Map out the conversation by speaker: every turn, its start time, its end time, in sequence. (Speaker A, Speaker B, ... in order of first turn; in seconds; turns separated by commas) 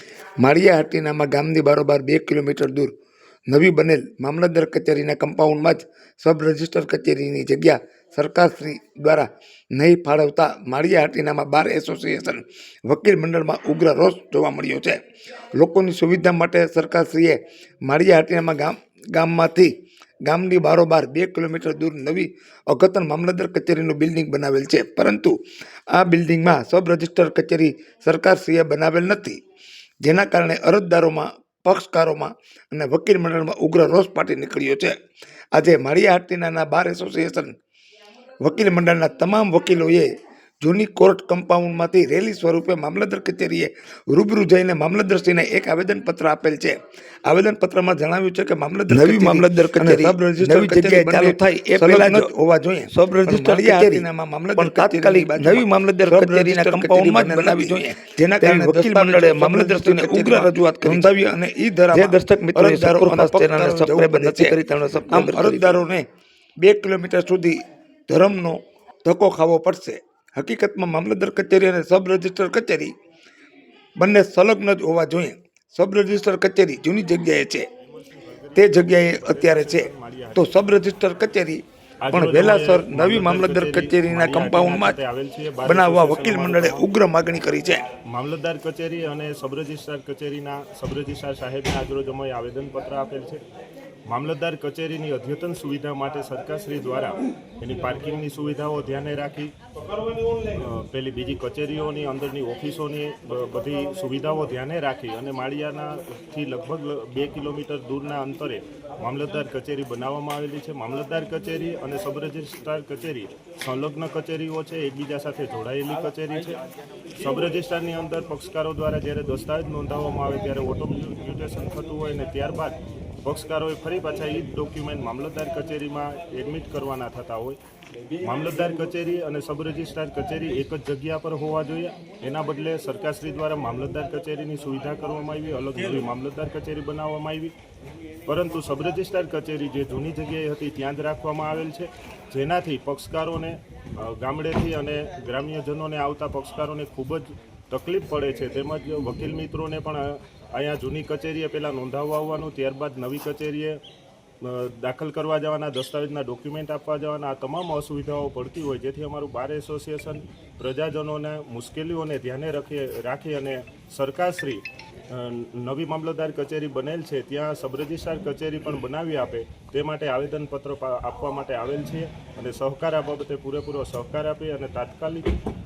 Speaker A: 0.4-2.9, Speaker A: 3.5-15.0, Speaker A: 15.6-19.7, Speaker A: 20.2-25.3, Speaker A: 25.9-29.4, Speaker A: 30.0-34.9, Speaker A: 35.5-37.5, Speaker A: 38.4-40.1, Speaker A: 40.6-64.6, Speaker B: 48.9-52.3, Speaker B: 52.9-54.0, Speaker B: 54.5-57.8, Speaker B: 58.4-61.1, Speaker B: 61.9-65.8, Speaker A: 65.1-66.0, Speaker A: 66.6-72.9, Speaker A: 74.0-77.7, Speaker C: 77.8-80.5, Speaker A: 78.5-85.0, Speaker C: 82.0-86.9, Speaker A: 85.6-87.8, Speaker C: 88.1-93.4, Speaker C: 94.1-99.5, Speaker C: 100.5-116.6, Speaker C: 117.2-127.6, Speaker C: 128.2-137.5, Speaker C: 138.2-153.8, Speaker C: 154.4-175.3